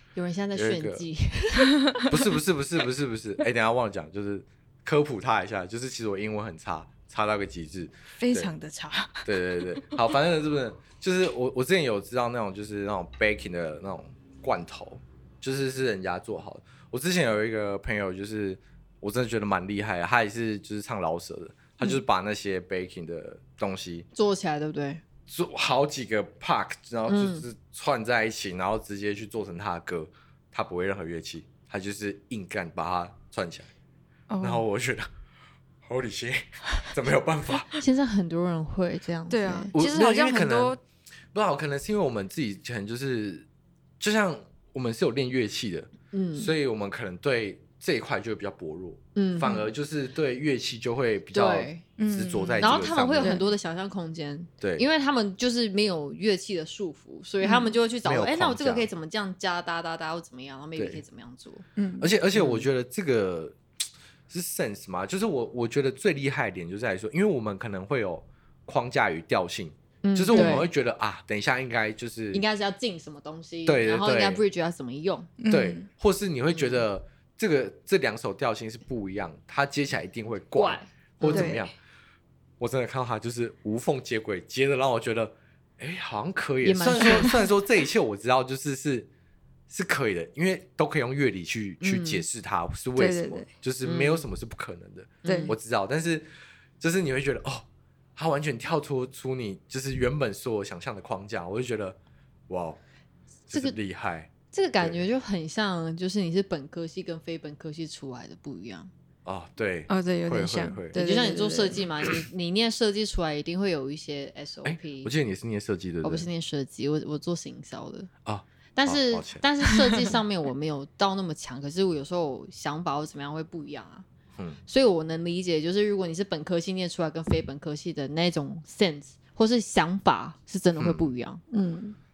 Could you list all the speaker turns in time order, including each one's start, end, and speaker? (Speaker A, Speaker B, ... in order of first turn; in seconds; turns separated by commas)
Speaker A: 0.1-2.1, Speaker B: 0.6-1.0, Speaker B: 2.1-8.5, Speaker C: 8.2-9.9, Speaker B: 9.2-24.1, Speaker A: 24.1-25.0, Speaker B: 25.3-33.7, Speaker A: 27.1-27.4, Speaker C: 34.3-34.6, Speaker B: 34.4-35.1, Speaker B: 35.8-37.8, Speaker A: 37.8-39.7, Speaker C: 39.3-40.8, Speaker B: 39.8-40.8, Speaker B: 41.3-43.5, Speaker B: 44.0-53.4, Speaker A: 46.1-46.5, Speaker A: 49.1-49.7, Speaker A: 51.3-51.9, Speaker C: 52.0-53.5, Speaker A: 52.6-61.6, Speaker C: 57.4-57.8, Speaker B: 58.0-58.9, Speaker B: 60.8-61.0, Speaker C: 61.8-62.1, Speaker B: 62.0-63.6, Speaker A: 62.3-62.6, Speaker B: 64.3-72.4, Speaker A: 70.0-70.7, Speaker C: 70.3-70.7, Speaker A: 72.3-75.3, Speaker B: 73.7-74.4, Speaker C: 75.4-75.9, Speaker B: 75.5-81.8, Speaker A: 76.5-76.8, Speaker A: 80.6-81.6, Speaker C: 81.3-81.7, Speaker B: 82.6-89.1, Speaker A: 86.6-87.4, Speaker B: 89.7-96.3, Speaker A: 91.8-92.2, Speaker C: 93.0-93.5, Speaker A: 93.8-94.3, Speaker A: 95.2-95.6, Speaker C: 95.2-95.5, Speaker B: 96.8-102.0, Speaker B: 102.5-102.8, Speaker B: 103.5-105.0, Speaker A: 104.5-108.9, Speaker B: 109.2-111.0, Speaker C: 109.9-111.8, Speaker A: 110.9-115.1, Speaker B: 114.6-116.3, Speaker A: 116.0-118.1, Speaker B: 118.2-119.5, Speaker A: 118.8-124.1, Speaker A: 124.7-131.4, Speaker B: 130.8-131.1, Speaker C: 131.5-132.0